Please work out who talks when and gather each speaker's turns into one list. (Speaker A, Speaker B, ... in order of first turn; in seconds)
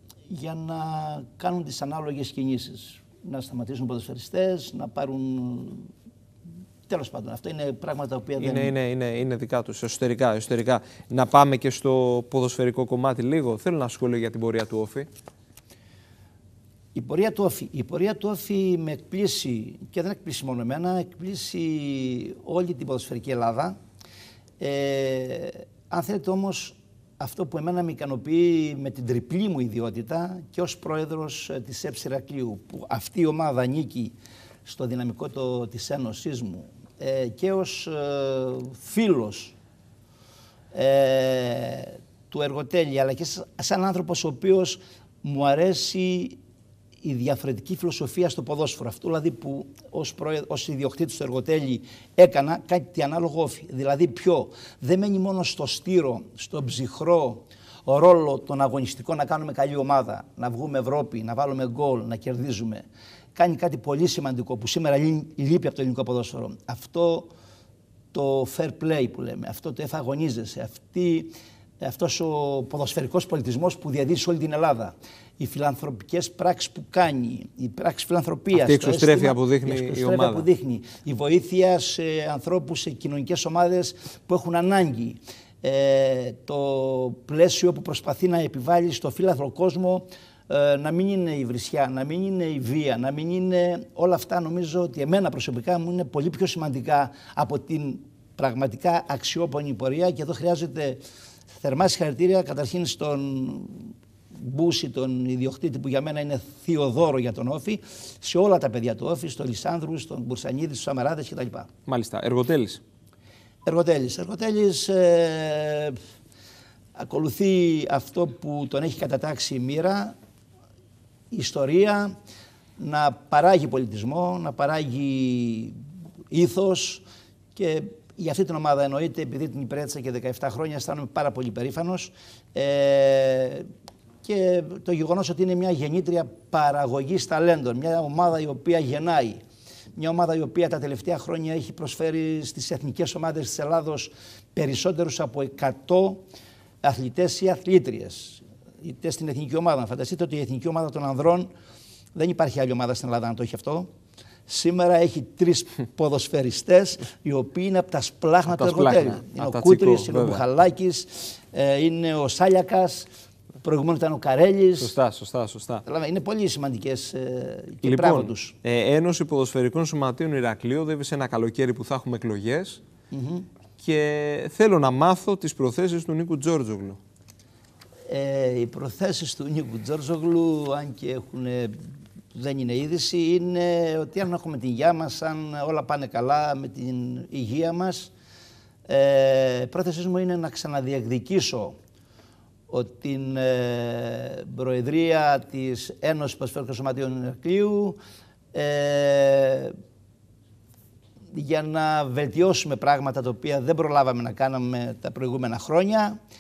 Speaker A: 0.3-5.9, 6.9-8.7, 16.9-23.8, 24.6-39.5, 40.7-46.4, 47.0-67.3, 68.1-101.0, 101.5-111.7, 113.7-116.0, 117.0-120.2, 121.3-122.1, 122.8-125.8, 126.3-127.0, 127.5-133.7, 134.2-139.4, 140.0-146.2, 146.8-151.5, 152.2-153.9, 154.5-163.1, 163.6-165.0, 165.8-168.6, 173.1-173.5, 178.1-181.8, 182.3-188.1, 188.9-191.8, 192.7-198.0, 198.5-199.7, 201.3-206.2
Speaker B: 8.4-15.1, 78.5-80.5, 111.9-112.8, 158.5-160.4, 164.8-165.8, 167.8-172.8, 173.8-177.0